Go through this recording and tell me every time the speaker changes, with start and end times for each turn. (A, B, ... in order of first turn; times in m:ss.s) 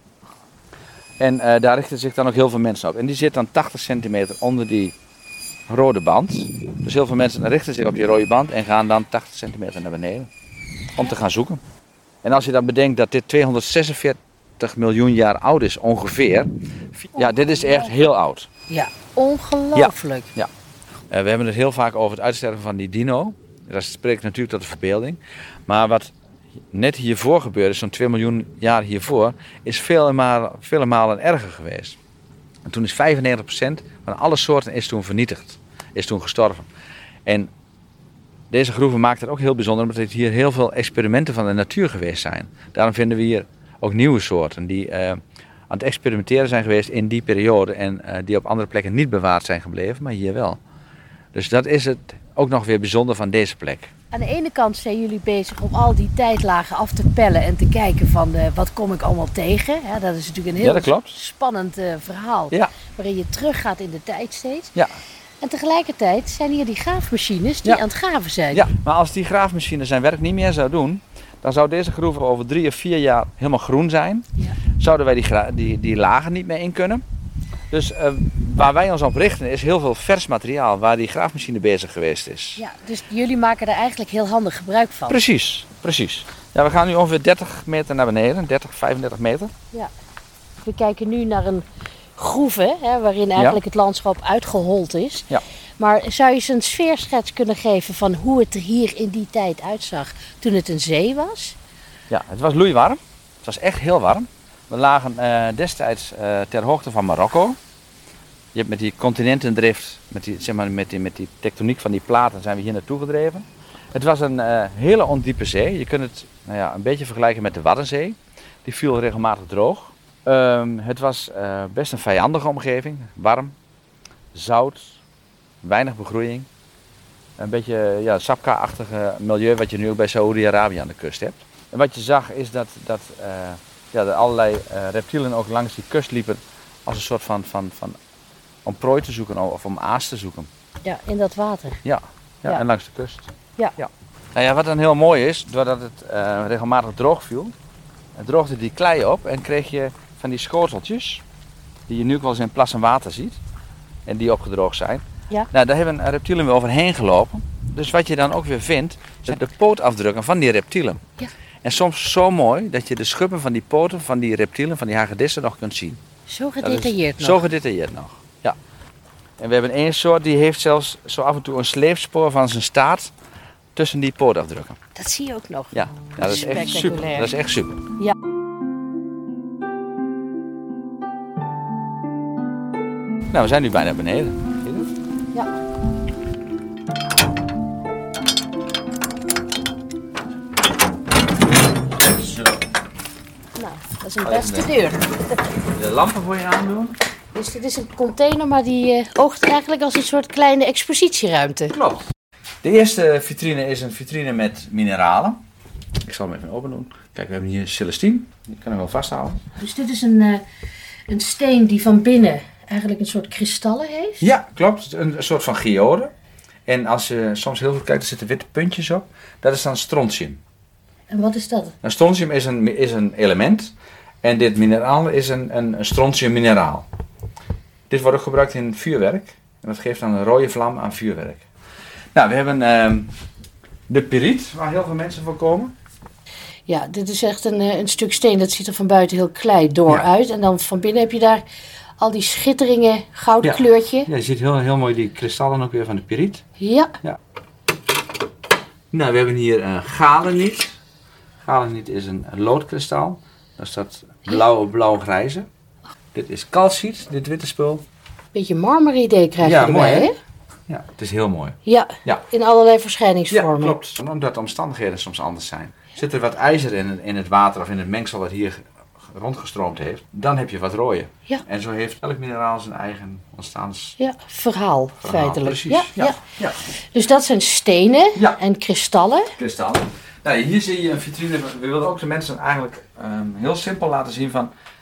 0:01.2-0:04.9 A
0:05.7-0:10.3 A
0:10.9-0:11.6 A
0:12.2-0:18.5 A
0:17.2-0:17.9 B
0:18.7-0:20.3 B
0:19.8-0:20.5 A
0:21.1-0:26.1 A
0:26.7-0:32.0 A
0:32.7-0:36.7 A
0:38.5-0:45.2 A
0:45.7-0:50.6 A
0:51.3-0:53.9 A
0:54.1-1:04.8 B
1:00.6-1:01.2 A
1:04.8-1:05.0 A
1:05.4-1:08.7 B
1:08.5-1:14.2 A
1:14.8-1:17.0 A
1:17.7-1:22.6 A
1:22.6-1:25.2 B
1:25.1-1:29.5 A
1:30.6-1:31.6 B
1:32.2-1:41.6 B
1:42.1-1:47.6 A
1:48.5-2:03.6 A
2:04.3-2:05.0 A
2:05.6-2:06.5 A
2:07.4-2:18.0 A
2:18.6-2:20.5 A
2:20.8-2:21.8 B
2:21.8-2:27.5 A
2:28.2-2:31.2 A
2:31.9-2:33.4 A
2:34.1-2:41.0 A
2:41.6-2:46.0 A
2:46.3-2:47.4 B
2:46.6-2:48.6 A
2:49.4-2:53.1 A
2:53.8-2:54.8 A
2:54.9-2:57.3 B
2:55.7-2:57.8 A
3:03.3-3:04.9 A
3:12.0-3:12.6 A
3:13.6-3:15.2 B
3:14.2-3:14.7 A
3:15.7-3:17.0 A
3:17.3-3:21.8 B
3:21.7-3:22.0 A
3:22.6-3:25.4 A
3:26.0-3:29.4 A
3:29.6-3:30.4 B
3:31.1-3:34.3 B
3:34.2-3:36.1 A
3:36.7-3:40.4 A
3:41.1-3:41.8 B
3:41.8-3:46.9 A
3:47.9-3:51.4 A
3:52.1-3:53.1 A
3:53.9-3:55.8 A
3:56.7-4:01.4 B
4:02.0-4:04.1 B
4:03.4-4:06.4 A
4:06.6-4:07.0 B
4:08.9-4:10.8 A
4:11.4-4:15.5 A
4:16.1-4:17.8 A
4:18.3-4:20.1 B
4:19.4-4:20.1 A
4:20.7-4:22.2 A
4:21.6-4:23.8 B
4:23.3-4:34.0 A
4:34.0-4:36.2 B
4:35.0-4:36.6 A
4:36.7-4:39.4 B
4:39.4-4:44.5 A